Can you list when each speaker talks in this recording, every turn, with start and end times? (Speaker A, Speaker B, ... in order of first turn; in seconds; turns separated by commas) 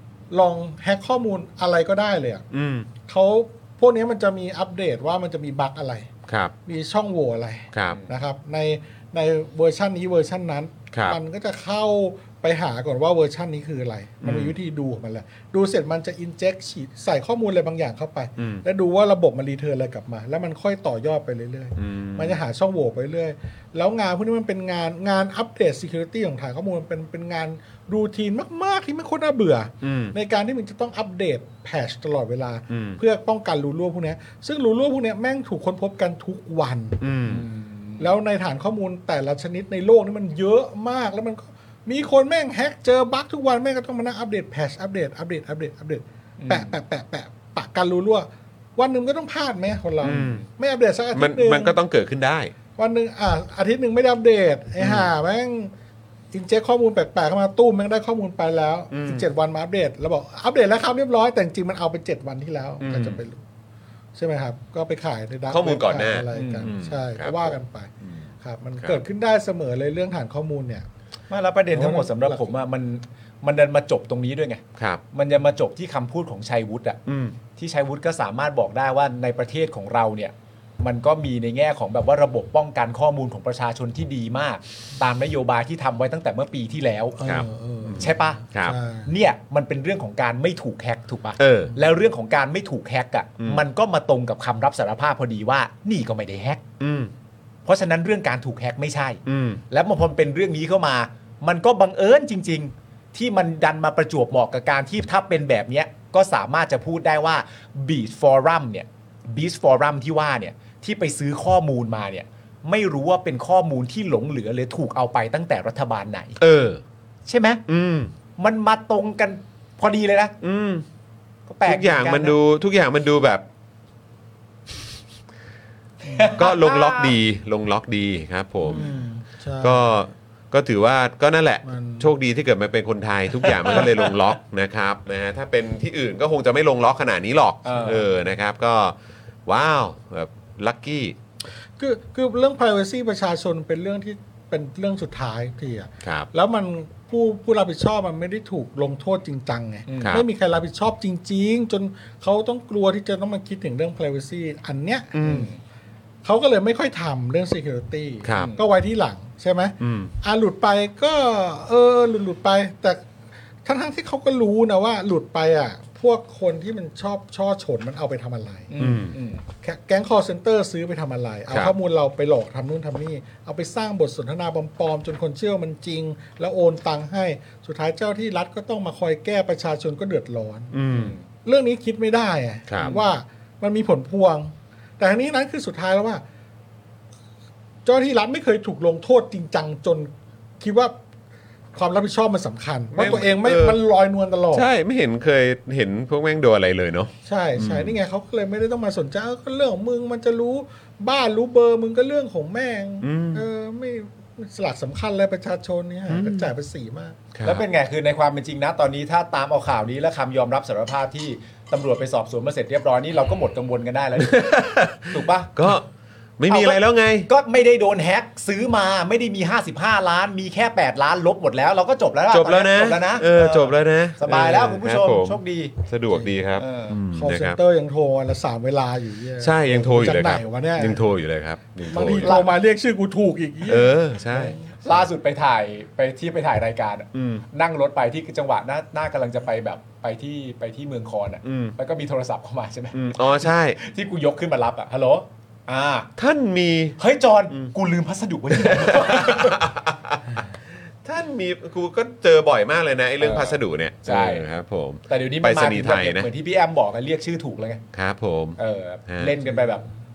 Speaker A: 0.3-2.5, Speaker B: 2.5-2.9, Speaker A: 3.0-6.1, Speaker B: 6.3-6.5, Speaker A: 6.6-37.0, Speaker B: 7.7-8.0, Speaker B: 10.9-11.2, Speaker B: 14.2-14.5, Speaker B: 18.4-18.6, Speaker B: 21.8-22.4, Speaker B: 29.8-30.1, Speaker B: 32.7-33.0, Speaker B: 37.0-37.4, Speaker C: 37.2-38.1, Speaker A: 38.0-51.8, Speaker C: 46.4-46.8, Speaker B: 50.0-50.4, Speaker B: 51.1-52.5, Speaker A: 52.8-55.7, Speaker B: 54.8-55.1, Speaker A: 56.3-63.4, Speaker B: 58.9-59.3, Speaker B: 62.8-63.2, Speaker A: 64.1-70.9, Speaker B: 65.5-68.2, Speaker C: 66.3-66.7, Speaker C: 71.3-87.2, Speaker A: 71.7-72.5, Speaker B: 77.0-77.3, Speaker A: 87.2-89.1, Speaker B: 87.2-88.8, Speaker C: 88.0-88.4, Speaker C: 89.0-96.6, Speaker B: 91.4-91.7, Speaker B: 96.8-97.1, Speaker C: 97.7-116.4, Speaker B: 99.2-99.6, Speaker B: 116.4-116.8, Speaker C: 117.2-117.6, Speaker B: 117.7-118.1, Speaker C: 118.4-120.3, Speaker B: 120.4-120.8, Speaker C: 121.5-122.3, Speaker B: 121.6-123.4, Speaker C: 126.0-127.2, Speaker A: 126.0-126.4, Speaker B: 126.4-128.8, Speaker A: 128.7-129.8, Speaker B: 129.6-138.9, Speaker A: 131.6-132.1, Speaker C: 133.4-134.1, Speaker C: 137.6-138.1, Speaker B: 139.4-141.2, Speaker A: 141.8-155.2, Speaker B: 146.0-146.3, Speaker C: 149.9-150.2, Speaker B: 155.1-155.5, Speaker C: 155.2-155.6, Speaker A: 156.2-163.1, Speaker B: 158.2-158.6, Speaker C: 158.3-158.6, Speaker B: 159.8-160.1, Speaker A: 163.6-168.8, Speaker C: 168.7-169.4, Speaker B: 168.8-169.1, Speaker A: 169.6-180.7, Speaker B: 180.7-181.1, Speaker C: 180.9-181.2, Speaker A: 181.4-186.2, Speaker B: 182.7-183.0, Speaker A: 187.8-191.0, Speaker A: 191.7-194.7, Speaker B: 192.9-193.8, Speaker B: 194.5-197.9, Speaker A: 197.2-207.2, Speaker B: 203.0-203.4, Speaker B: 206.1-206.5, Speaker B: 207.3-207.6, Speaker C: 207.4-215.6, Speaker B: 214.2-215.8, Speaker B: 216.4-217.3, Speaker C: 216.5-227.0, Speaker B: 222.3-227.6, Speaker A: 227.1-231.0, Speaker B: 229.4-232.4, Speaker A: 231.9-234.6, Speaker C: 232.2-232.5, Speaker B: 233.6-234.6, Speaker C: 234.8-246.1, Speaker B: 237.1-237.4, Speaker B: 241.4-241.7, Speaker B: 242.9-243.8, Speaker B: 246.2-247.0, Speaker C: 247.0-249.6, Speaker B: 248.6-250.4, Speaker B: 251.0-256.3, Speaker C: 253.2-254.4, Speaker C: 255.1-257.8, Speaker B: 257.9-259.3, Speaker C: 258.6-259.9